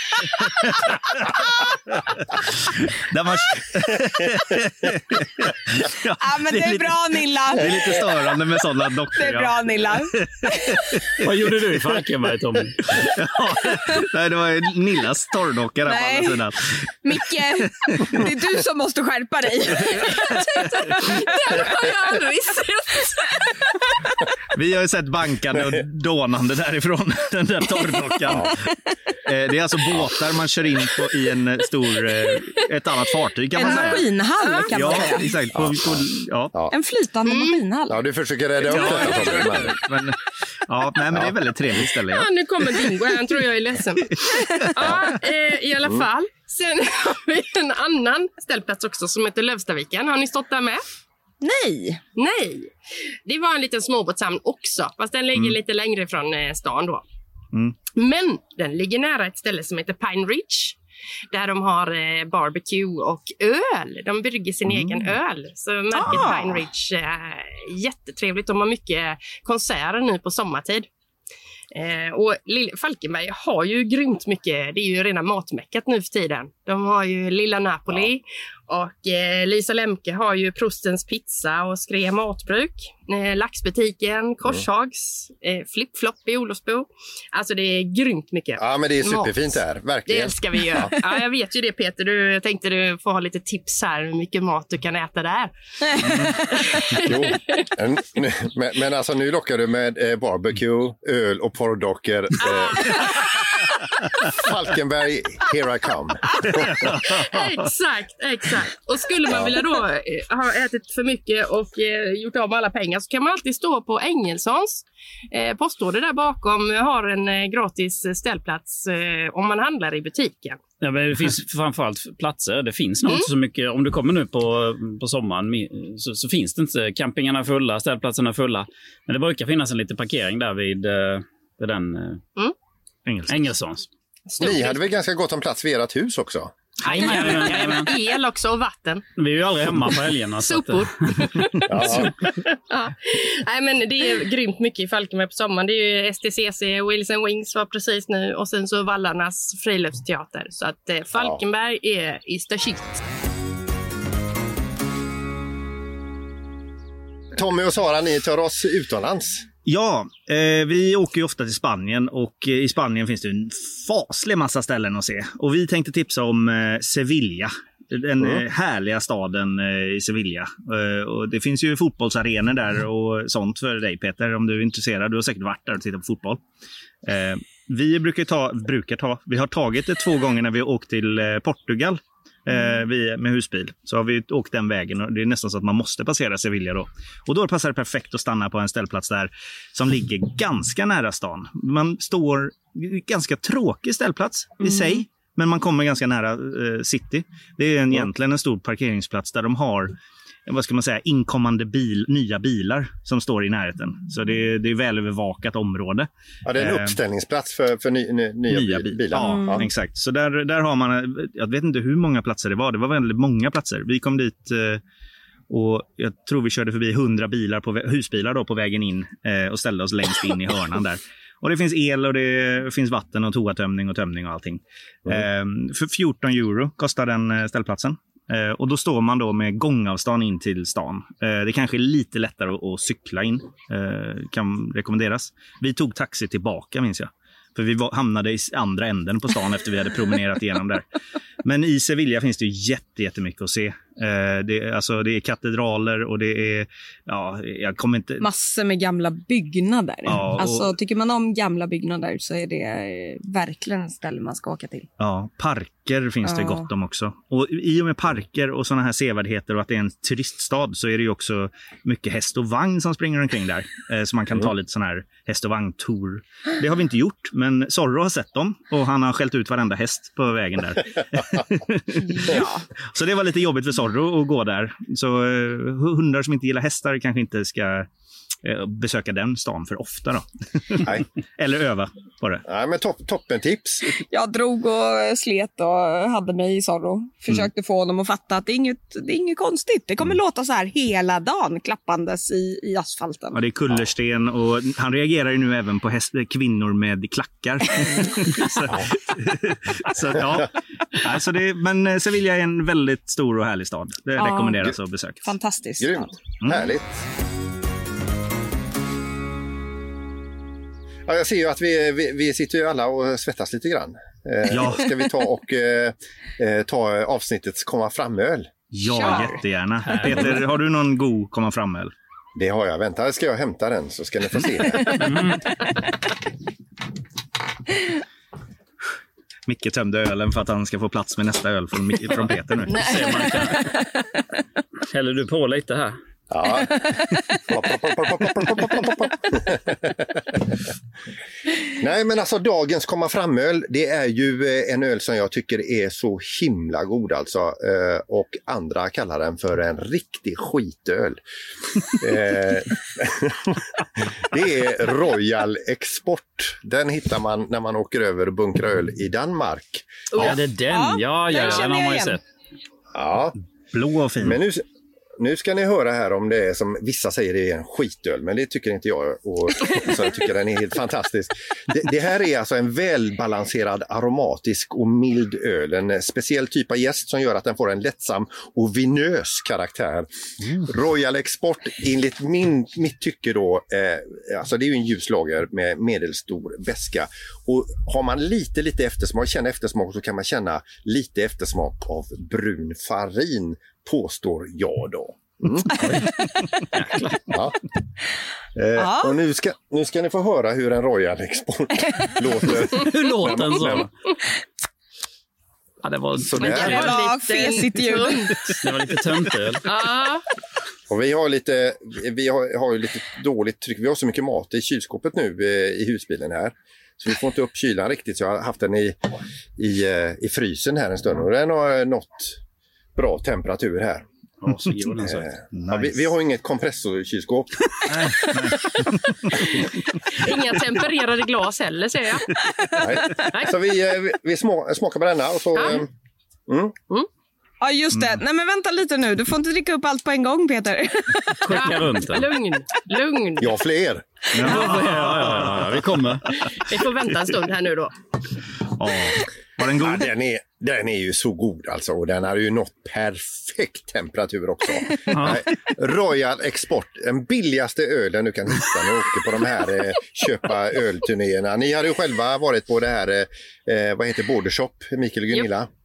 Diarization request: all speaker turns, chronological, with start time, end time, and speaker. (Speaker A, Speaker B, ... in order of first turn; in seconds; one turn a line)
Speaker A: 0.2-11.2
Speaker B: 6.2-8.1
Speaker B: 9.1-10.8
Speaker C: 11.2-13.0
Speaker A: 12.9-18.3
Speaker B: 15.8-16.4
Speaker B: 17.0-22.3
Speaker A: 19.7-21.1
Speaker D: 21.3-23.2
Speaker B: 23.0-23.9
Speaker A: 24.5-28.6
Speaker A: 29.2-34.1
Speaker B: 33.5-35.4
Speaker D: 34.5-35.0
Speaker A: 34.7-36.5
Speaker E: 35.5-36.7
Speaker B: 36.7-38.0
Speaker D: 37.2-37.6
Speaker E: 37.9-39.8
Speaker A: 38.7-42.9
Speaker D: 38.7-39.7
Speaker E: 41.1-41.8
Speaker D: 42.1-50.8
Speaker B: 51.4-52.0
Speaker D: 52.1-52.7
Speaker D: 53.2-57.0
Speaker D: 57.9-60.8
Speaker D: 61.3-70.9
Speaker A: 64.7-65.1
Speaker B: 66.0-66.6
Speaker D: 71.7-89.4
Speaker E: 88.6-90.9
Speaker D: 90.0-97.6
Speaker A: 96.0-96.3
Speaker E: 97.0-103.3
Speaker D: 102.4-103.4
Speaker E: 104.3-106.9
Speaker A: 106.8-107.6
Speaker D: 107.0-120.6
Speaker E: 109.3-109.5
Speaker C: 120.8-132.2
Speaker A: 133.1-133.5
Speaker C: 133.3-133.9
Speaker D: 134.3-134.8
Speaker E: 134.4-136.5
Speaker C: 136.8-137.9
Speaker D: 136.8-139.1
Speaker C: 139.2-142.0
Speaker D: 140.4-153.0
Speaker E: 141.7-142.1
Speaker E: 157.3-159.4
Speaker A: 159.7-176.4
Speaker E: 168.2-168.4
Speaker A: 177.0-199.9
Speaker A: 200.5-207.0
Speaker E: 206.4-209.7
Speaker A: 208.5-214.8
Speaker B: 209.2-209.6
Speaker A: 215.5-240.8
Speaker A: 241.4-248.2
Speaker B: 248.2-254.9
Speaker A: 250.1-250.7
Speaker A: 255.0-277.9
Speaker B: 256.2-256.7
Speaker B: 272.0-272.6
Speaker A: 278.4-282.4
Speaker E: 282.4-284.0
Speaker B: 284.0-293.4
Speaker A: 293.3-305.3
Speaker B: 304.2-304.7
Speaker B: 305.2-306.1
Speaker E: 305.8-307.0
Speaker A: 306.4-306.7
Speaker E: 311.1-318.5
Speaker A: 314.5-314.9
Speaker A: 318.7-321.9
Speaker B: 318.9-319.4
Speaker C: 319.9-320.4
Speaker E: 322.4-325.1
Speaker C: 324.9-325.5
Speaker A: 329.5-332.9
Speaker C: 332.7-333.7
Speaker B: 333.5-333.8
Speaker C: 334.9-335.9
Speaker E: 336.3-336.9
Speaker E: 337.5-340.4
Speaker E: 341.7-351.2
Speaker E: 351.9-360.3
Speaker C: 360.2-362.2
Speaker B: 360.2-362.2
Speaker E: 362.9-363.4
Speaker A: 363.7-364.4
Speaker E: 364.2-364.6
Speaker E: 365.2-380.1
Speaker E: 380.6-395.7
Speaker C: 395.8-396.1
Speaker C: 396.7-397.3
Speaker E: 397.3-397.6
Speaker E: 398.5-403.9
Speaker B: 398.8-399.1
Speaker C: 402.7-403.9
Speaker C: 405.8-406.8
Speaker E: 406.2-406.9
Speaker D: 406.4-408.5
Speaker B: 406.4-408.3
Speaker C: 408.6-409.6
Speaker D: 409.6-410.2
Speaker E: 410.9-419.0
Speaker E: 419.6-422.4
Speaker E: 422.9-424.0
Speaker C: 424.4-425.3
Speaker E: 425.0-427.8
Speaker A: 425.5-426.0
Speaker A: 427.9-429.5
Speaker D: 430.1-432.3
Speaker E: 432.8-435.9
Speaker D: 435.5-435.8
Speaker E: 436.5-436.8
Speaker B: 437.6-441.6
Speaker A: 437.9-438.2
Speaker C: 441.4-442.3
Speaker D: 441.5-443.6
Speaker E: 443.4-444.1
Speaker A: 444.3-446.4
Speaker C: 444.4-446.2
Speaker D: 446.4-447.9
Speaker A: 448.7-450.1
Speaker E: 449.8-465.7
Speaker C: 455.1-455.4